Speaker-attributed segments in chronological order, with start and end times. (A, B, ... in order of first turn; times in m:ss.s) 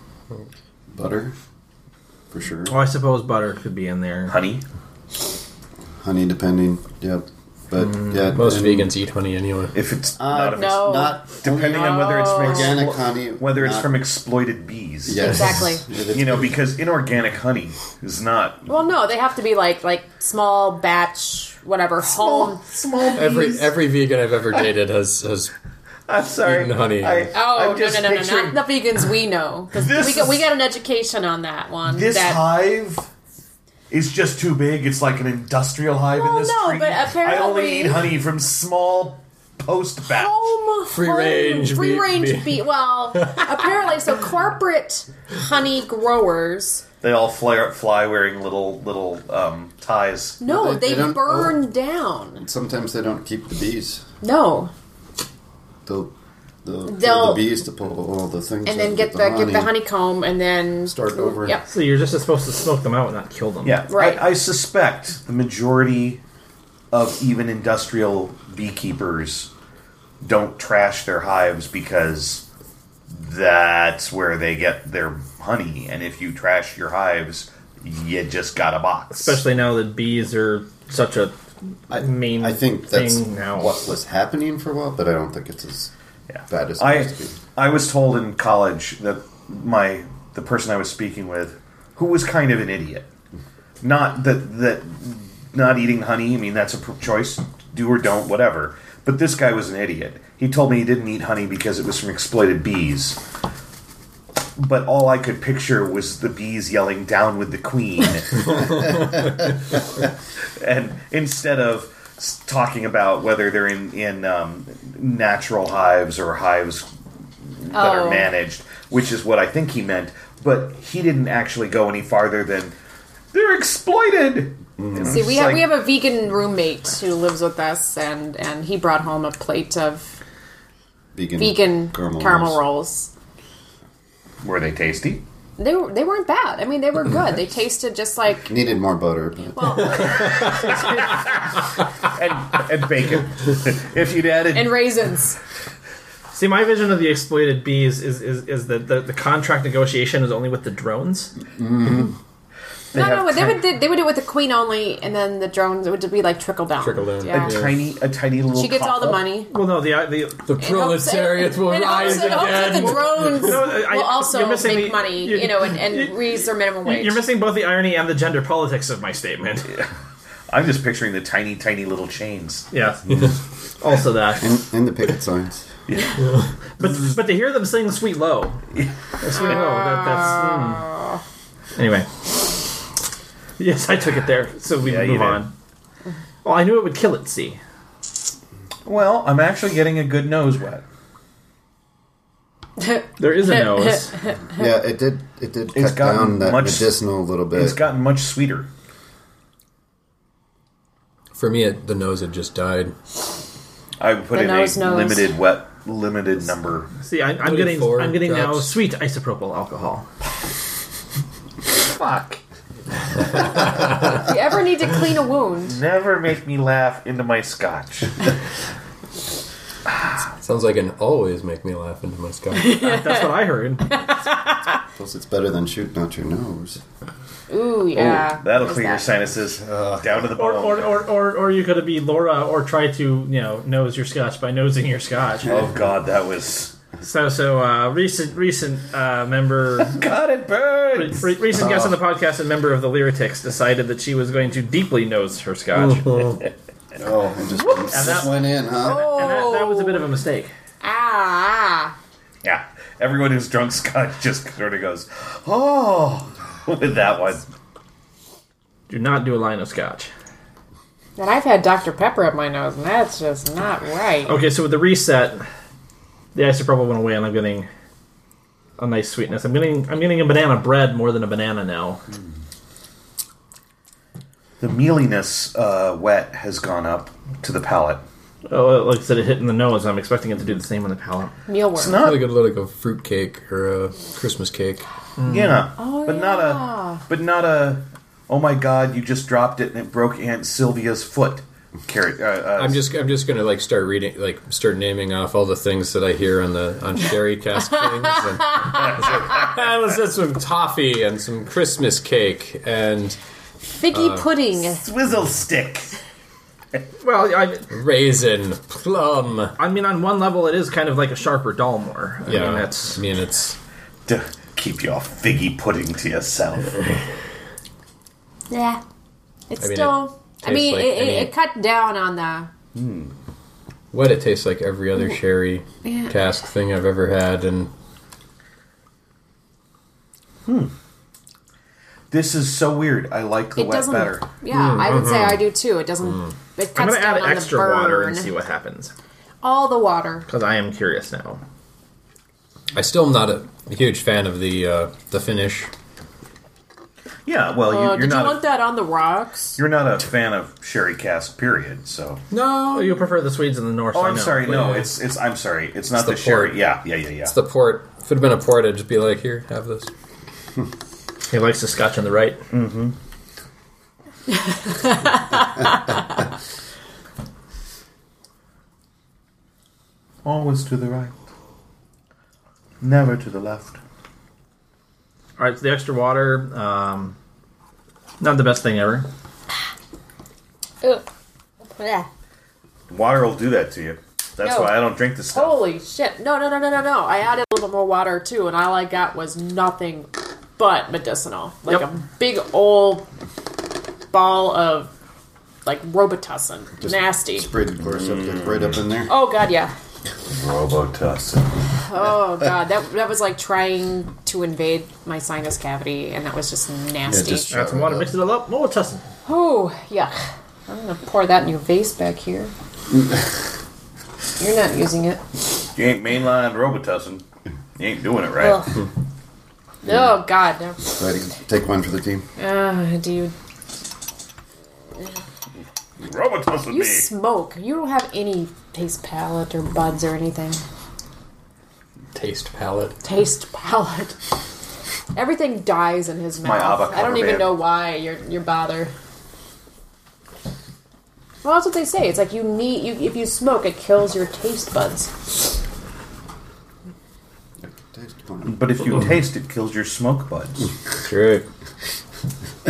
0:00.9-0:01.3 A
0:02.3-0:02.8 A
0:02.7-0:04.3 B
0:04.3-0:04.6 C
0:06.0-0:08.9 A
0:08.3-0:09.8 D
0:09.7-0:15.3 C
0:10.2-0:14.0 A
0:10.5-0:12.7 E
0:15.0-0:16.6 A
0:15.2-0:15.8 E
0:16.1-0:18.7 C
0:18.7-0:22.6 E
0:22.0-0:23.8 C
0:23.2-0:25.5 D
0:26.1-0:28.6 C
0:26.4-0:27.3 D
0:27.3-0:32.4 E
0:29.7-0:30.4 C
0:31.9-0:33.1 C
0:33.9-0:40.4 C
0:36.1-0:38.1 E
0:40.1-0:46.8 E
0:40.9-0:43.5 D
0:47.0-0:50.4 C
0:50.4-0:52.4 E
0:50.4-0:51.6 A
0:52.4-0:54.1 A
0:54.2-0:54.7 E
0:55.9-0:59.8 A
0:56.9-0:57.4 E
0:58.7-1:01.6 E
1:00.9-1:01.6 A
1:01.7-1:03.8 B
1:03.6-1:06.2 C
1:03.9-1:04.2 E
1:06.9-1:09.5 C
1:10.2-1:12.4 C
1:13.1-1:19.4 C
1:19.1-1:21.4 B
1:21.9-1:23.7 B
1:21.9-1:25.9 A
1:26.3-1:33.1 C
1:26.5-1:27.4 A
1:33.8-1:43.2 C
1:44.6-1:49.1 C
1:50.6-1:56.9 C
1:57.5-2:02.8 C
1:57.7-1:58.3 E
2:03.3-2:05.8 C
2:04.8-2:05.4 A
2:05.1-2:10.1 E
2:11.2-2:12.6 A
2:11.4-2:13.1 E
2:14.4-2:15.2 C
2:15.6-2:18.6 E
2:18.5-2:20.1 A
2:19.6-2:21.1 E
2:20.4-2:21.1 C
2:22.0-2:24.9 C
2:24.5-2:25.4 E
2:26.3-2:31.3 B
2:31.6-2:32.1 A
2:32.9-2:33.7 C
2:32.9-2:37.6 E
2:36.8-2:37.8 D
2:37.4-2:39.3 C
2:38.5-2:39.5 E
2:39.5-2:40.5 B
2:40.5-2:43.7 D
2:40.6-2:47.2 E
2:41.9-2:49.8 B
2:50.5-2:52.7 C
2:52.7-2:53.2 B
2:53.8-2:54.5 B
2:54.4-2:55.7 A
2:55.9-2:56.2 C
2:56.2-2:56.5 D
2:56.8-2:58.6 B
2:59.2-3:00.9 B
2:59.3-3:01.2 E
3:01.8-3:02.5 B
3:03.6-3:05.5 B
3:04.8-3:05.4 C
3:06.4-3:07.6 B
3:08.9-3:10.8 C
3:12.8-3:14.6 E
3:13.2-3:14.2 B
3:14.5-3:17.8 A
3:15.7-3:16.9 C
3:17.5-3:18.7 C
3:21.4-3:23.0 D
3:24.0-3:26.9 C
3:24.3-3:25.4 E
3:27.0-3:30.1 B
3:27.4-3:28.7 D
3:31.8-3:32.4 C
3:33.6-3:35.8 E
3:35.6-3:38.3 C
3:40.4-3:42.8 D
3:42.6-3:44.7 E
3:42.7-3:44.0 B
3:44.9-3:46.8 A
3:47.5-3:49.0 E
3:47.9-3:50.9 C
3:49.6-3:50.3 A
3:50.4-3:55.7 B
3:55.4-3:56.7 C
3:57.0-4:00.0 B
3:59.8-4:01.3 C
4:01.0-4:06.3 B
4:05.8-4:06.4 D
4:07.0-4:09.2 A
4:07.6-4:10.5 B
4:08.8-4:10.1 E
4:10.8-4:12.0 E
4:12.4-4:17.5 C
4:18.9-4:20.1 B
4:21.2-4:24.4 E
4:24.3-4:25.5 B
4:26.3-4:27.7 B
4:28.8-4:32.0 B
4:34.6-4:38.0 C
4:38.5-4:41.3 B
4:41.5-4:42.1 E
4:41.8-4:42.3 C
4:41.9-4:44.8 D
4:45.2-4:45.6 B
4:45.3-4:52.8 C
4:45.8-4:47.0 E
4:52.6-5:03.2 D
5:03.7-5:04.9 E
5:03.9-5:04.3 D
5:04.8-5:05.9 C
5:07.0-5:07.7 B
5:07.7-5:09.6 D
5:09.6-5:13.0 B
5:12.3-5:13.6 D
5:14.1-5:17.0 C
5:18.5-5:18.8 E
5:19.5-5:22.5 E
5:19.6-5:21.3 D
5:22.7-5:23.1 C
5:23.9-5:27.7 D
5:25.8-5:26.1 E
5:30.5-5:30.7 C
5:32.1-5:34.3 C
5:33.6-5:38.3 E
5:34.5-5:35.5 D
5:36.8-5:38.9 B
5:39.4-5:40.3 E
5:40.3-5:41.4 B
5:42.7-5:45.7 D
5:47.3-5:48.4 C
5:47.7-5:49.6 E
5:49.6-5:52.2 C
5:52.3-5:53.1 D
5:52.7-5:54.9 B
5:53.9-5:57.4 C
5:56.0-5:56.6 D
5:57.2-5:59.9 D
6:01.3-6:02.4 B
6:02.5-6:03.0 C
6:04.3-6:06.0 E
6:10.2-6:11.2 C
6:12.8-6:13.8 C
6:15.4-6:17.2 B
6:18.2-6:19.1 B
6:21.8-6:22.1 E
6:22.9-6:25.6 C
6:24.4-6:24.8 E
6:25.3-6:33.1 E
6:34.1-6:34.9 E
6:35.6-6:37.5 E
6:36.8-6:39.1 A
6:37.8-6:38.8 C
6:39.1-6:39.7 E
6:40.3-6:41.6 C
6:41.8-6:47.5 E
6:47.1-6:48.1 A
6:47.5-6:49.1 B
6:49.3-6:52.5 E
6:52.9-6:53.2 A
6:54.4-6:55.2 E
6:55.8-6:57.2 C
6:57.8-6:58.7 C
6:58.4-6:58.9 E
6:59.8-7:01.0 E
6:59.8-7:00.2 A
7:00.9-7:02.3 A
7:02.4-7:03.3 E
7:06.0-7:07.1 C
7:06.7-7:10.6 E
7:12.1-7:13.0 D
7:13.0-7:14.2 E
7:15.1-7:18.9 E
7:16.4-7:17.6 C
7:21.4-7:25.4 E
7:27.6-7:28.7 A
7:28.4-7:30.7 C
7:31.0-7:31.4 D